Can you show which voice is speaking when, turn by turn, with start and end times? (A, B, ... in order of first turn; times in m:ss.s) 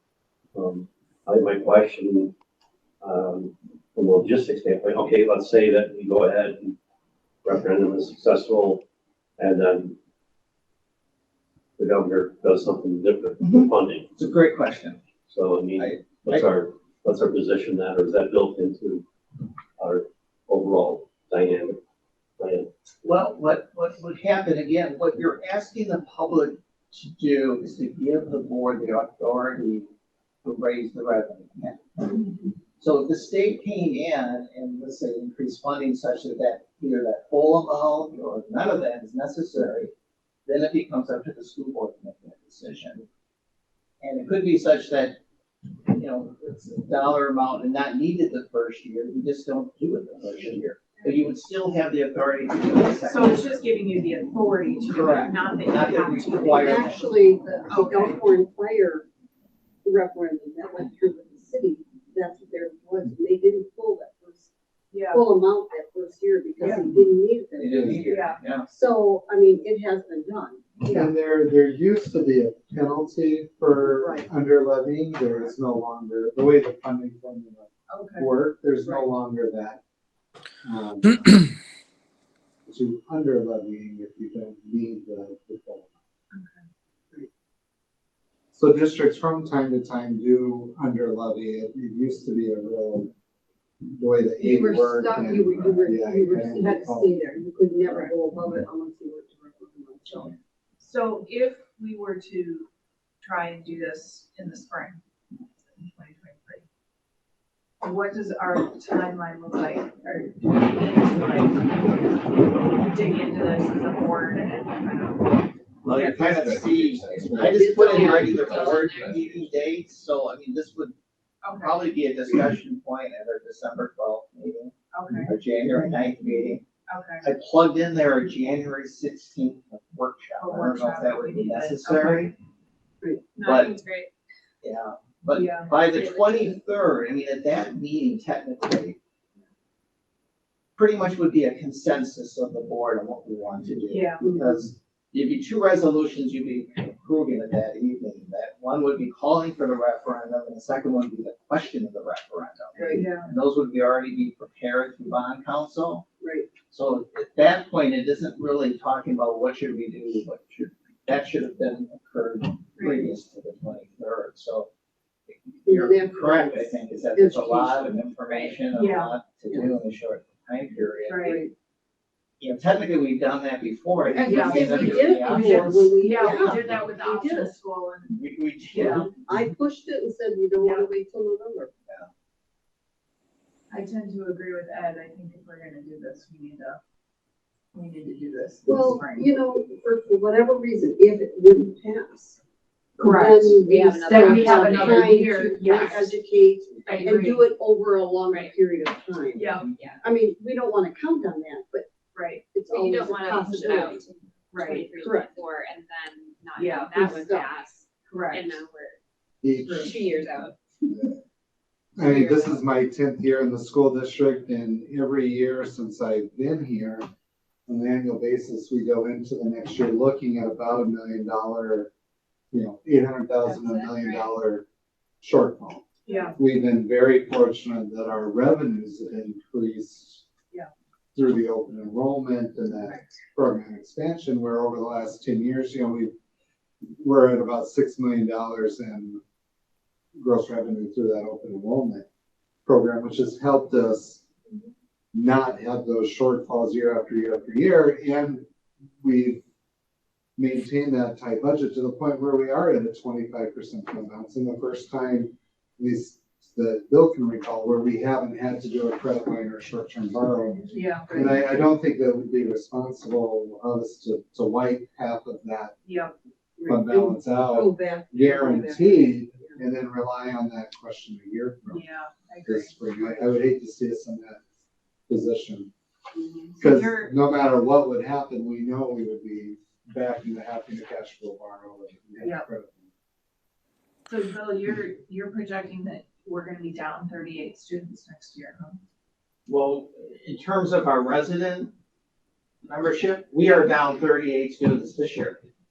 0:00.5-0:02.3 A
0:03.0-0:06.8 A
0:07.4-0:08.9 A
0:09.4-0:10.0 A
0:11.8-0:14.1 A
0:13.4-0:15.0 B
0:15.3-0:19.1 A
0:15.8-0:16.5 B
0:19.8-0:21.8 A
0:22.4-0:22.7 A
0:23.0-0:29.9 B
0:30.4-0:39.9 B
0:40.5-0:43.0 B
0:44.0-0:45.2 B
0:45.9-0:53.6 B
0:52.9-0:57.0 C
0:54.9-0:57.0 B
0:56.5-0:59.1 D
0:57.7-0:58.2 C
0:59.8-1:04.5 D
1:04.9-1:05.3 C
1:05.1-1:08.1 D
1:06.6-1:06.9 C
1:06.7-1:07.1 E
1:07.6-1:08.7 B
1:08.1-1:08.4 C
1:08.6-1:11.1 D
1:10.9-1:19.8 E
1:13.8-1:14.3 D
1:17.9-1:18.3 C
1:20.6-1:21.5 E
1:22.7-1:25.9 E
1:26.3-1:26.6 C
1:28.5-1:33.1 E
1:33.8-1:37.2 E
1:34.4-1:40.4 D
1:40.8-1:42.7 C
1:43.2-1:45.0 C
1:45.7-1:46.6 C
1:47.8-1:56.6 C
1:55.8-2:01.0 B
1:56.2-1:57.8 E
1:57.4-1:59.0 D
1:57.9-1:59.1 F
2:01.4-2:01.9 C
2:01.5-2:04.7 B
2:04.9-2:05.4 C
2:05.3-2:06.6 B
2:06.9-2:07.3 C
2:07.2-2:12.3 B
2:10.4-2:12.3 C
2:13.4-2:14.1 C
2:13.4-2:13.8 B
2:13.7-2:14.1 F
2:14.6-2:19.0 B
2:15.3-2:15.9 C
2:16.0-2:16.3 F
2:20.8-2:36.0 B
2:23.9-2:24.3 C
2:24.2-2:24.7 D
2:32.8-2:33.1 D
2:33.0-2:33.3 C
2:36.2-2:36.5 D
2:36.7-2:44.7 B
2:42.8-2:43.1 C
2:45.3-2:51.4 B
2:45.7-2:48.0 D
2:48.2-2:48.6 F
2:48.6-2:49.2 C
2:49.5-2:49.8 D
2:51.0-2:51.5 D
2:51.0-2:51.4 C
2:52.4-2:55.9 B
2:54.1-2:57.6 D
2:54.2-2:58.2 C
2:58.1-2:59.1 B
2:58.7-2:59.1 C
2:58.7-3:01.7 D
3:00.6-3:00.9 C
3:03.7-3:06.8 C
3:07.7-3:09.3 C
3:08.7-3:12.4 D
3:13.0-3:21.9 D
3:13.0-3:16.2 C
3:13.5-3:15.3 F
3:16.9-3:17.4 C
3:19.4-3:19.7 C
3:19.7-3:20.0 F
3:22.1-3:22.4 C
3:22.5-3:24.0 D
3:22.7-3:29.0 F
3:24.5-3:25.0 C
3:24.9-3:25.4 D
3:26.6-3:27.0 C
3:26.9-3:27.5 D
3:28.1-3:28.6 C
3:29.4-3:30.0 E
3:29.6-3:29.9 C
3:29.8-3:30.6 F
3:30.9-3:31.2 E
3:32.0-3:37.1 E
3:32.0-3:32.6 F
3:37.7-3:41.9 E
3:42.5-3:44.7 E
3:43.4-3:44.3 F
3:45.2-3:50.2 E
3:46.1-3:46.4 C
3:51.2-3:56.2 E
3:57.0-3:59.2 E
4:00.2-4:02.1 E
4:02.6-4:04.2 E
4:05.1-4:08.5 E
4:09.0-4:09.4 E
4:10.4-4:25.8 E
4:20.7-4:21.2 C
4:21.1-4:21.4 D
4:25.8-4:26.1 C
4:26.6-4:29.6 D
4:26.7-4:31.8 E
4:31.7-4:33.3 C
4:32.4-4:34.4 E
4:35.1-4:35.7 E
4:36.1-4:36.6 D
4:36.6-4:37.1 C
4:36.6-4:42.9 E
4:44.1-4:48.8 C
4:49.5-4:51.7 B
4:52.6-4:55.4 B
4:53.4-4:53.7 C